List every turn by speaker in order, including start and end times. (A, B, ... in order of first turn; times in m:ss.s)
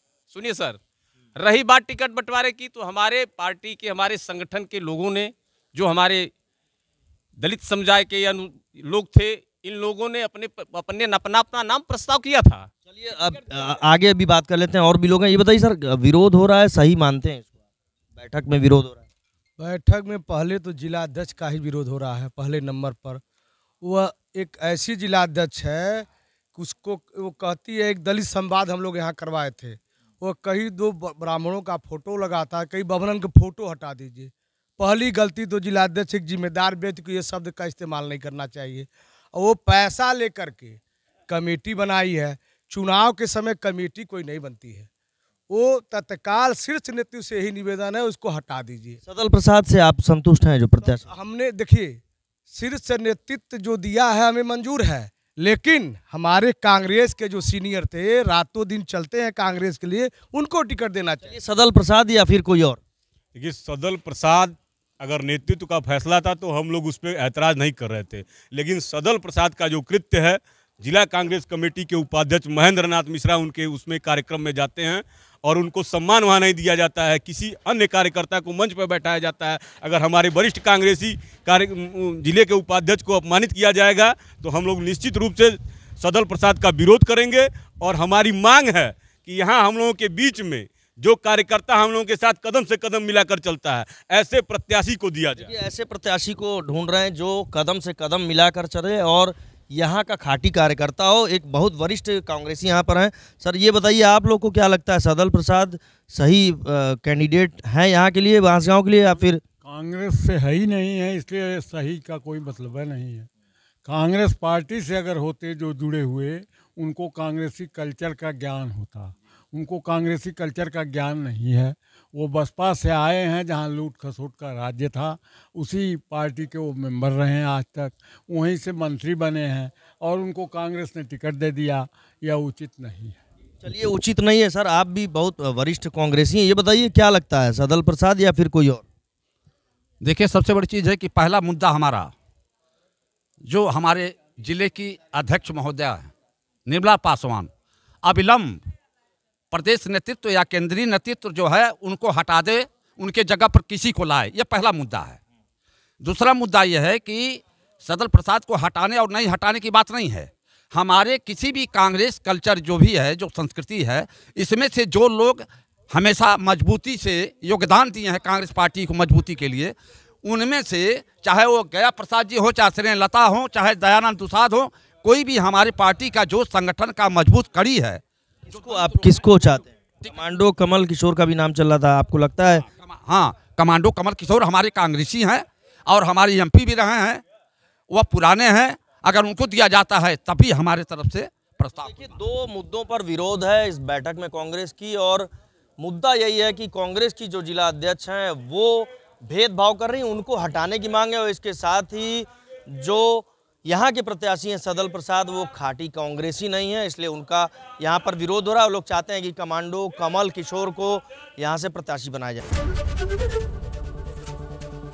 0:00.3-0:00.8 A
0:01.4-0:06.3 A
0:07.4-0:12.7 A
0:12.9-0:17.5 B
0:18.2-0:19.0 B
0:19.6-0:23.2 C
0:23.8-0:44.9 C
0:45.5-0:49.0 C
0:49.0-0:51.1 B
0:50.8-1:01.3 C
1:01.2-1:02.8 B
1:03.4-1:35.5 D
1:35.3-1:49.4 B
1:49.6-1:53.3 E
1:53.8-2:13.2 E
2:13.6-2:18.8 B
2:20.0-2:22.1 F
2:23.5-2:26.1 F
2:26.7-2:27.5 F
2:28.0-2:28.6 F
2:29.5-2:35.2 F
2:36.0-2:59.0 F
2:58.5-3:02.6 B
3:02.8-3:07.2 F
3:07.9-3:12.0 F
3:11.8-3:32.4 B